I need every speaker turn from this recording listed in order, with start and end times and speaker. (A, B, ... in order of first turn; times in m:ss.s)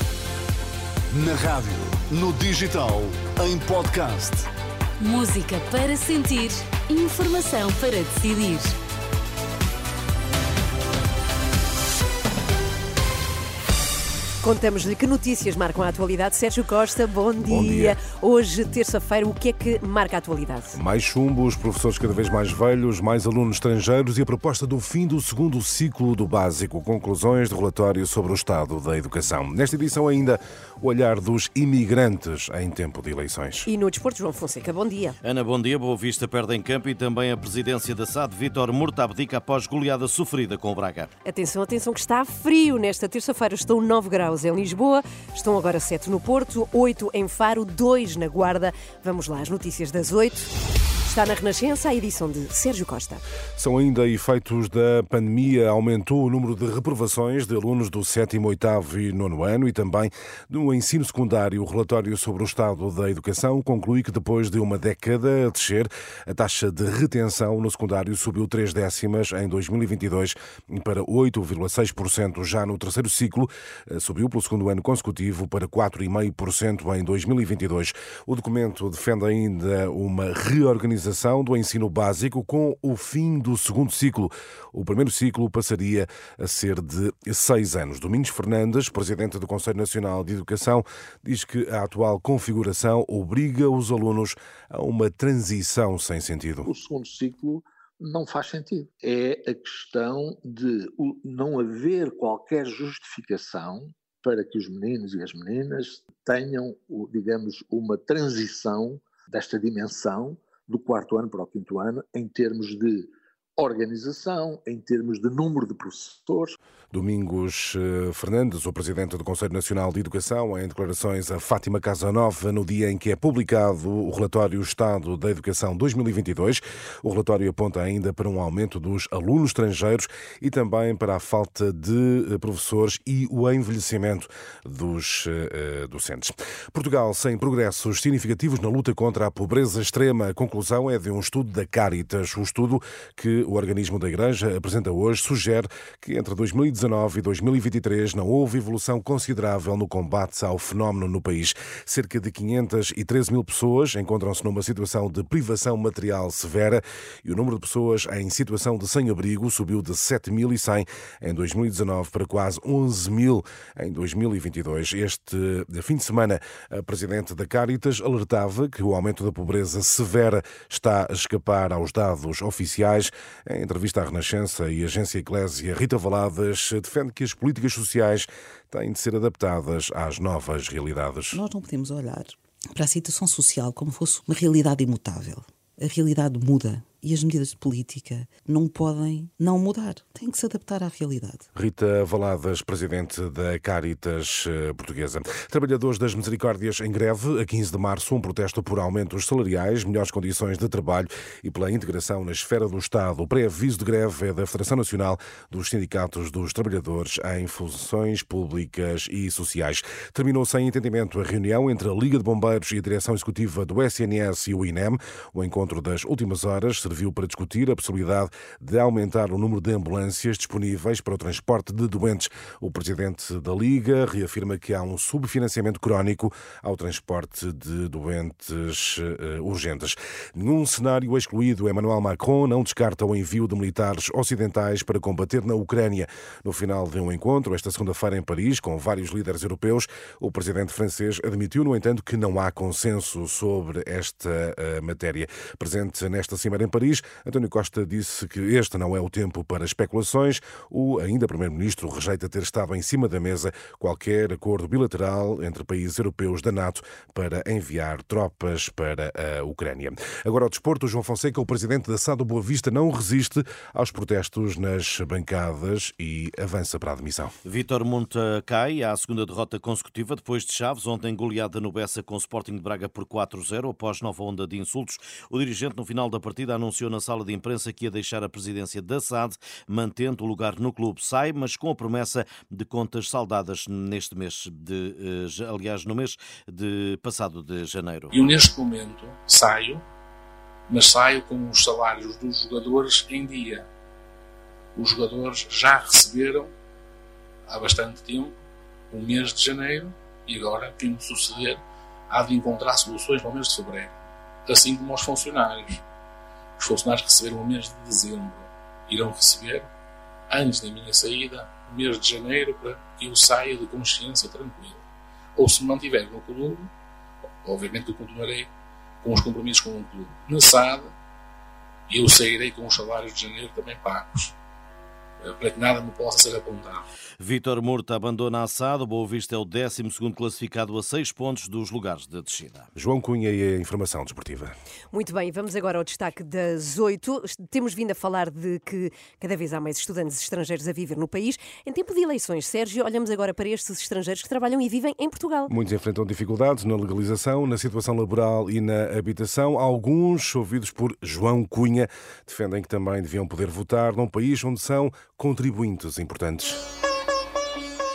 0:01.1-0:04.5 A
0:05.0-0:08.8 B
0:14.4-0:20.8 C
0:17.4-0:18.0 D
0:20.7-0:33.7 D
0:33.7-0:35.2 C
0:35.2-0:41.1 E
0:41.2-0:50.5 C
0:51.0-0:53.2 C
0:53.6-1:36.7 D
1:36.6-1:56.6 F
1:56.9-3:01.4 D
3:01.3-3:11.4 G
3:11.6-4:27.4 D
4:27.4-4:48.4 E
4:48.1-4:49.8 H
4:50.7-4:53.7 H
4:54.8-4:56.5 H
4:57.5-4:58.4 H
4:58.9-5:04.0 H
5:04.5-5:05.8 H
5:06.6-5:09.7 H
5:10.3-5:14.8 H
5:15.4-5:16.7 H
5:17.4-5:18.5 H
5:19.0-5:20.9 H
5:21.9-5:24.3 H
5:25.2-5:26.8 H
5:27.2-5:32.7 E
5:32.8-5:34.5 D
5:34.9-5:45.5 C
5:45.5-5:56.6 D